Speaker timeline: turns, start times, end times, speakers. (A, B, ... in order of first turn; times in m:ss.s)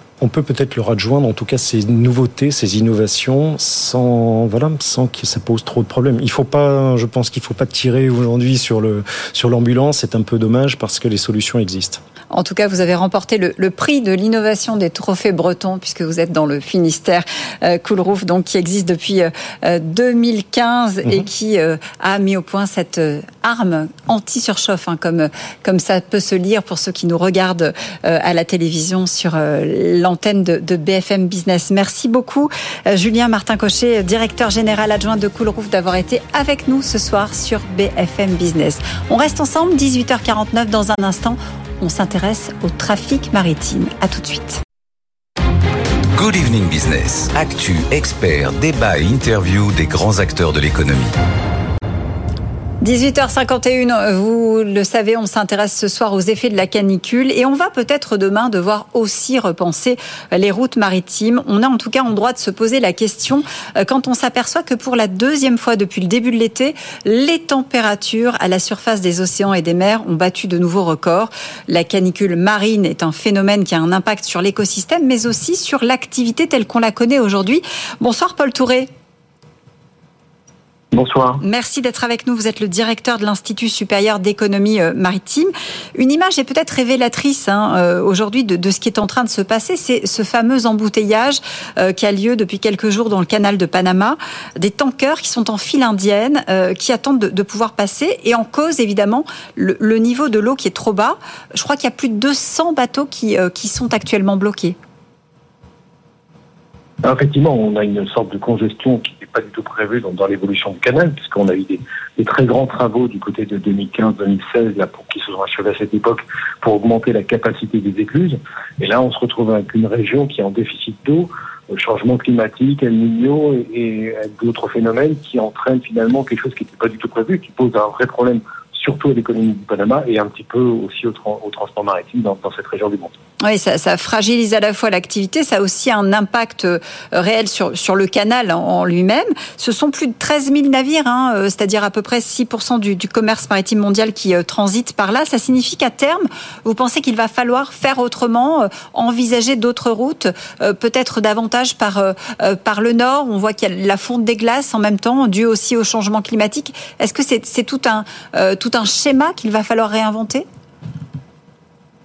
0:00.2-0:12.0 A
0:12.3-0:44.6 B
0:21.0-0:21.3 A
0:46.2-0:51.2 C
0:52.8-1:18.9 B
1:20.9-1:21.4 D
1:21.4-1:44.8 B
1:47.0-2:13.1 D
2:13.4-2:40.5 B